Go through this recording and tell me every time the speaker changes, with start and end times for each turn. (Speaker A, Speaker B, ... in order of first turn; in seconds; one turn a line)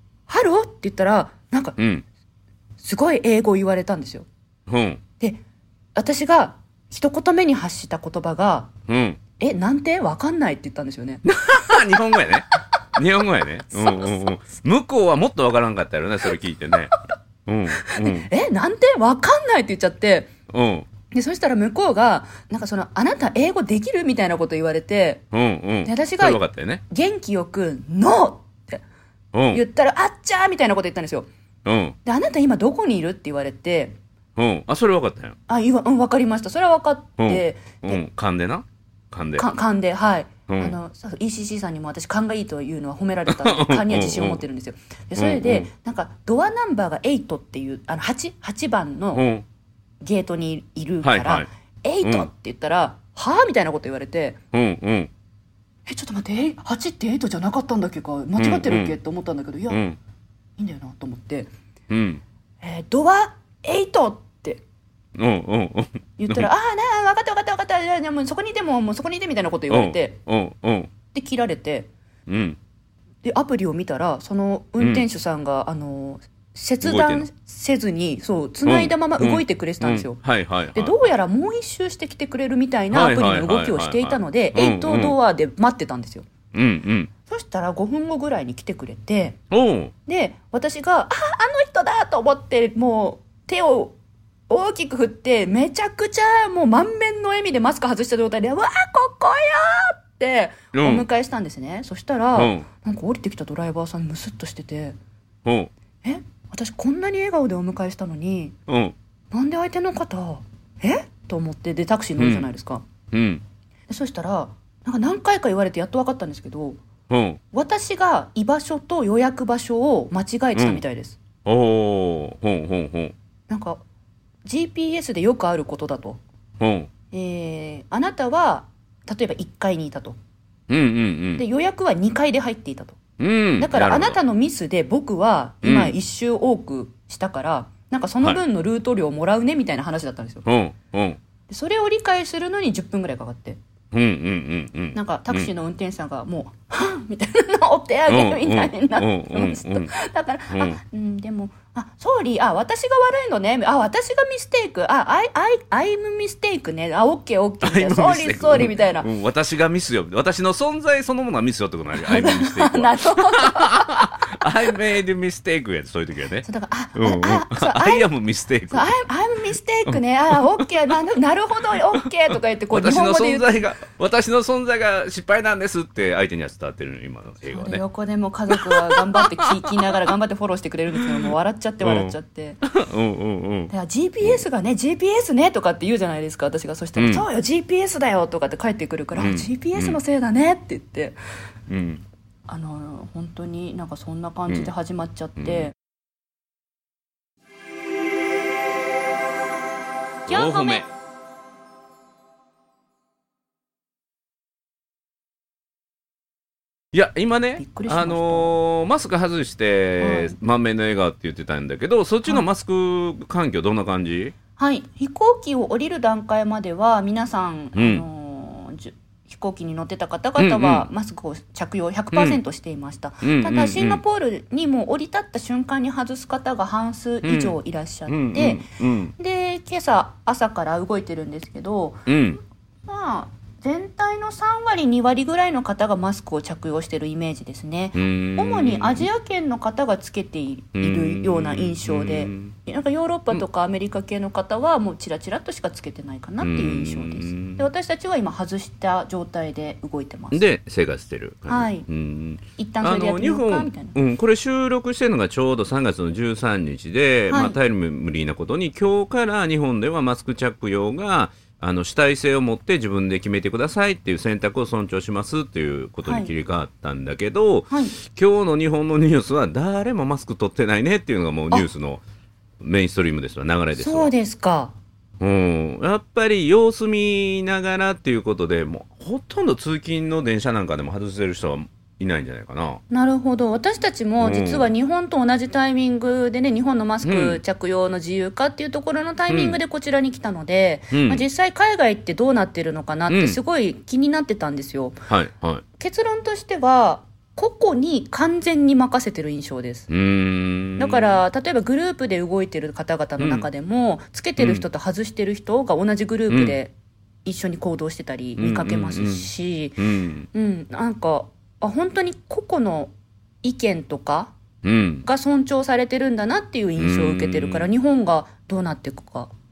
Speaker A: 0.3-1.8
Speaker B: 1.8-2.0
Speaker A: 2.8-4.3
Speaker B: 4.7-5.0
Speaker A: 6.0-8.7
Speaker B: 8.9-9.2
Speaker A: 9.4-11.2
Speaker B: 11.3-16.9
Speaker A: 13.7-14.3
Speaker B: 17.5-18.3
Speaker A: 17.8-20.3
Speaker B: 20.5-20.9
Speaker A: 21.1-25.2
Speaker B: 25.3-26.8
Speaker A: 25.9-28.8
Speaker B: 29.3-29.6
Speaker A: 29.5-31.3
Speaker B: 31.6-32.0
Speaker A: 32.0-34.0
Speaker B: 34.4-35.4
Speaker A: 35.5-38.0
Speaker B: 37.2-39.5
Speaker A: 39.4-49.3
Speaker B: 40.5-40.8
Speaker B: 43.3-44.4
Speaker B: 45.2-45.7
Speaker B: 49.1-49.5
Speaker A: 50.0-54.4
Speaker B: 51.0-51.5
Speaker B: 52.0-52.3
Speaker B: 54.5-55.1
Speaker A: 55.9-59.8
Speaker B: 58.4-59.0
Speaker B: 59.7-60.0
Speaker A: 60.6-61.5
Speaker B: 61.9-62.2
Speaker A: 62.6-64.6
Speaker B: 65.2-66.5
Speaker A: 66.2-70.2
Speaker B: 69.7-70.9
Speaker A: 71.1-71.9
Speaker B: 72.3-72.6
Speaker A: 73.2-80.2
Speaker B: 74.8-75.0
Speaker B: 76.8-77.3
Speaker B: 78.7-81.1
Speaker A: 80.7-86.3
Speaker B: 82.9-85.2
Speaker B: 86.5-87.1
Speaker A: 87.3-89.4
Speaker B: 89.5-89.9
Speaker A: 90.1-94.0
Speaker A: 94.5-105.0
Speaker B: 100.7-101.1
Speaker B: 102.3-102.7
Speaker B: 105.5-105.7
Speaker A: 106.0-108.5
Speaker B: 108.7-109.0
Speaker A: 109.3-112.8
Speaker B: 112.2-112.5
Speaker B: 113.1-113.4
Speaker A: 113.9-116.8
Speaker B: 117.1-117.4
Speaker A: 117.5-121.2
Speaker B: 120.5-120.8
Speaker B: 121.5-123.1
Speaker A: 123.5-123.8
Speaker A: 124.5-126.2
Speaker B: 126.6-126.9
Speaker A: 127.1-130.2
Speaker B: 130.7-131.4
Speaker A: 131.4-133.0
Speaker B: 133.2-134.2
Speaker A: 133.6-140.4
Speaker B: 135.6-135.9
Speaker B: 140.4-141.2
Speaker A: 141.5-143.6
Speaker B: 143.9-145.5
Speaker A: 144.9-159.1
Speaker B: 148.1-149.9
Speaker B: 150.5-150.8
Speaker B: 157.6-169.0
Speaker A: 162.0-164.4
Speaker A: 166.4-168.1
Speaker A: 168.7-173.6
Speaker B: 169.9-170.7
Speaker B: 171.7-172.1
Speaker B: 172.7-177.8
Speaker A: 177.5-182.6
Speaker B: 178.5-180.1
Speaker B: 181.8-183.7
Speaker A: 183.7-191.2
Speaker B: 187.0-187.3
Speaker B: 189.2-190.0
Speaker B: 191.7-192.0
Speaker A: 192.5-195.7
Speaker B: 195.4-195.7
Speaker B: 200.3-200.9
Speaker A: 200.3-200.8
Speaker B: 206.9-214.3
Speaker A: 207.6-208.6
Speaker A: 210.0-210.4
Speaker A: 214.6-228.7
Speaker B: 217.8-218.0
Speaker B: 220.4-220.9
Speaker B: 222.1-222.4
Speaker B: 223.2-224.0
Speaker B: 227.2-227.6
Speaker B: 228.1-229.1
Speaker A: 229.2-232.1
Speaker B: 232.1-232.4
Speaker A: 232.9-250.4
Speaker B: 237.9-239.1
Speaker B: 240.8-242.5
Speaker B: 246.4-247.7
Speaker B: 250.3-272.0
Speaker A: 251.5-251.9
Speaker A: 252.6-254.0
Speaker A: 257.3-257.6
Speaker A: 266.1-266.3
Speaker A: 267.7-268.0
Speaker B: 272.6-274.1
Speaker A: 273.8-274.7
Speaker B: 275.2-282.8
Speaker A: 282.9-295.0
Speaker B: 284.2-284.7
Speaker B: 287.0-287.4
Speaker B: 289.3-289.6
Speaker B: 290.9-291.2
Speaker B: 293.1-293.4
Speaker B: 295.1-295.6
Speaker A: 295.8-299.9
Speaker B: 299.9-301.2
Speaker A: 300.8-306.7
Speaker B: 303.2-303.5
Speaker B: 304.4-304.7
Speaker B: 306.3-306.6
Speaker A: 307.2-309.8
Speaker B: 308.4-310.3
Speaker A: 310.3-312.9
Speaker A: 313.4-314.3
Speaker B: 314.6-315.1
Speaker A: 315.0-319.3
Speaker B: 316.8-317.7